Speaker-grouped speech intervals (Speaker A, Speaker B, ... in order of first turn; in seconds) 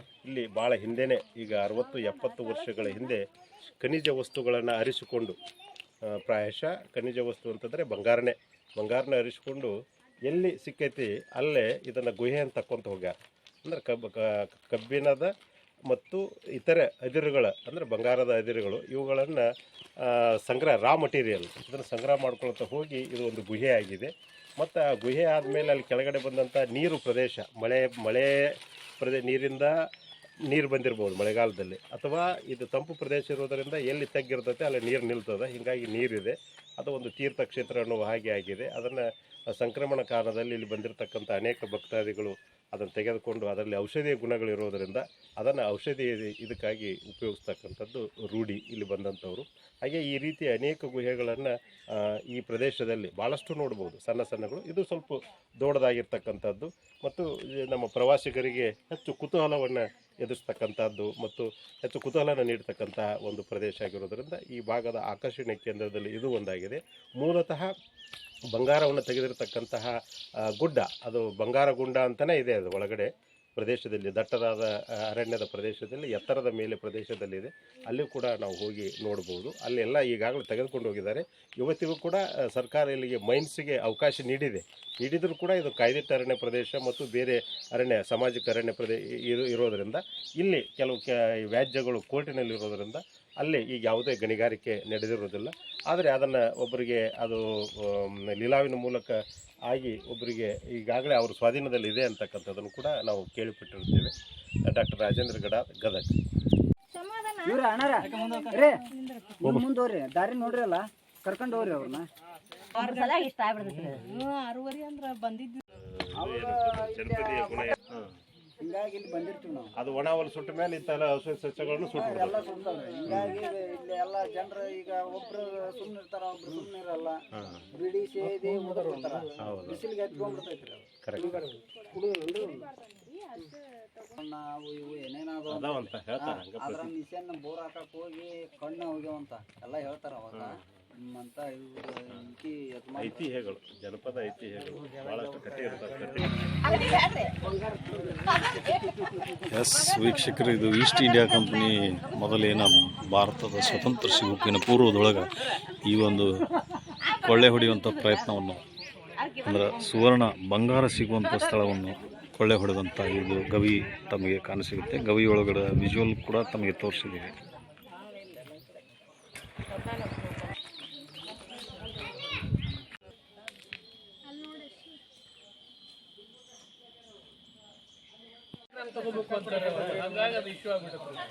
Speaker A: 0.2-3.2, 3.8-5.4, 6.0-9.7, 10.3-15.3, 15.9-19.5, 20.0-29.9, 30.5-67.7, 68.5-104.1, 104.7-106.1, 115.7-118.1, 119.8-122.5, 123.1-123.4, 129.4-129.8, 131.0-131.4, 135.5-136.9, 140.3-140.6, 143.0-146.7
Speaker B: 106.9-107.3, 108.0-109.3, 112.7-114.3, 114.8-115.3, 168.2-168.7, 178.9-181.0
Speaker C: 107.4-108.9, 109.4-112.1, 116.1-117.8, 118.6-119.7, 121.9-127.2, 127.7-132.6, 134.2-143.2
Speaker D: 112.8-113.3, 114.1-115.6
Speaker E: 149.5-156.5, 157.1-158.6, 159.4-167.3